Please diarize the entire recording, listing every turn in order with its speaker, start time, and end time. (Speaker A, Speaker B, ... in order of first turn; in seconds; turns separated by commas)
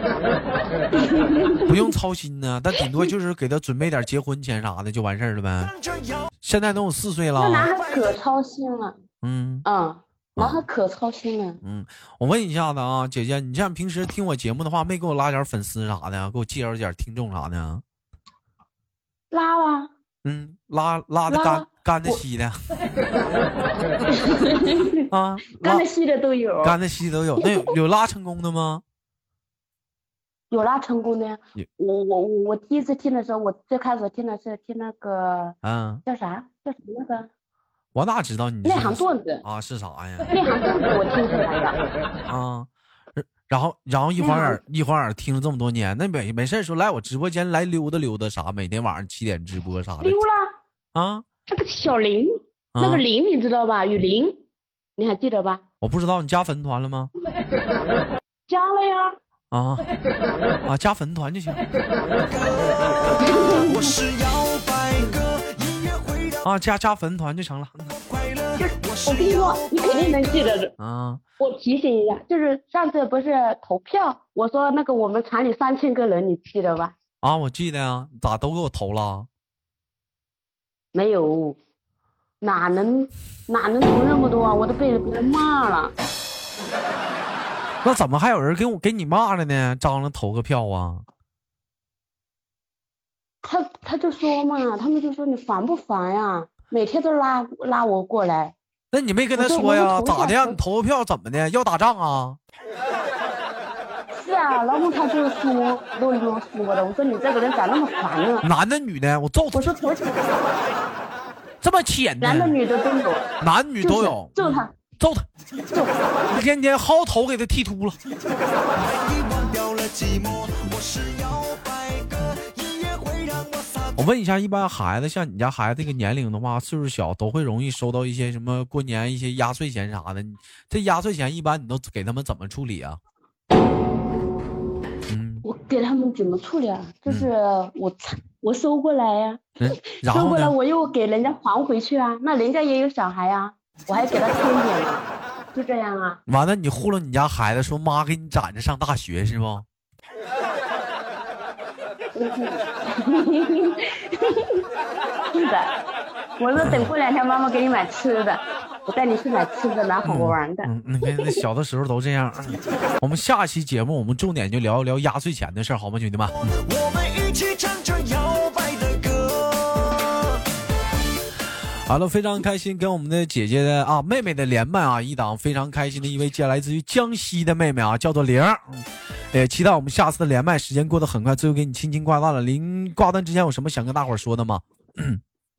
Speaker A: 0.9-1.7, Speaker B: 1.7-5.8, Speaker B: 6.4-7.7, Speaker A: 7.4-9.0, Speaker B: 9.2-9.7, Speaker A: 9.7-11.6, Speaker B: 10.4-10.7, Speaker B: 11.6-17.8, Speaker A: 19.3-19.9, Speaker B: 20.2-22.6, Speaker A: 21.3-22.2, Speaker A: 24.1-25.1, Speaker B: 25.1-25.9, Speaker A: 25.6-26.8, Speaker B: 26.6-28.8, Speaker A: 27.4-27.7, Speaker A: 30.5-37.3, Speaker B: 35.6-36.0, Speaker B: 38.0-40.3, Speaker A: 38.6-39.4, Speaker A: 40.3-41.8, Speaker B: 42.3-50.2, Speaker A: 44.2-44.6, Speaker A: 50.0-50.5, Speaker B: 51.0-51.2, Speaker A: 51.5-54.4, Speaker B: 52.7-53.0, Speaker A: 55.0-55.6, Speaker B: 55.8-57.1, Speaker A: 58.5-59.2, Speaker B: 59.5-59.9, Speaker B: 60.7-61.6, Speaker C: 62.4-62.7, Speaker A: 63.2-64.0, Speaker C: 63.7-65.1, Speaker A: 65.0-65.2, Speaker B: 65.6-65.9, Speaker B: 66.4-68.0, Speaker A: 68.6-70.8, Speaker C: 69.0-70.0, Speaker B: 70.8-71.2, Speaker A: 71.4-77.0, Speaker B: 77.2-79.3, Speaker A: 80.9-81.6, Speaker A: 82.4-86.0, Speaker B: 87.8-91.0, Speaker A: 93.4-98.5, Speaker B: 98.9-102.4, Speaker A: 99.3-100.6, Speaker A: 104.1-108.5, Speaker B: 108.4-109.8, Speaker A: 109.5-110.1, Speaker B: 111.6-112.6, Speaker A: 112.2-113.3, Speaker B: 113.4-115.3, Speaker A: 113.8-114.7, Speaker A: 115.7-116.3, Speaker B: 116.3-118.0, Speaker C: 119.0-123.8, Speaker B: 124.0-133.0, Speaker B: 135.1-135.5, Speaker A: 135.4-139.4, Speaker B: 139.6-140.6, Speaker A: 140.0-146.2, Speaker B: 146.3-149.7, Speaker A: 152.2-154.6, Speaker A: 155.3-155.7, Speaker A: 156.4-161.4, Speaker B: 156.6-156.9, Speaker B: 160.0-166.6, Speaker C: 166.8-170.1, Speaker B: 171.9-185.2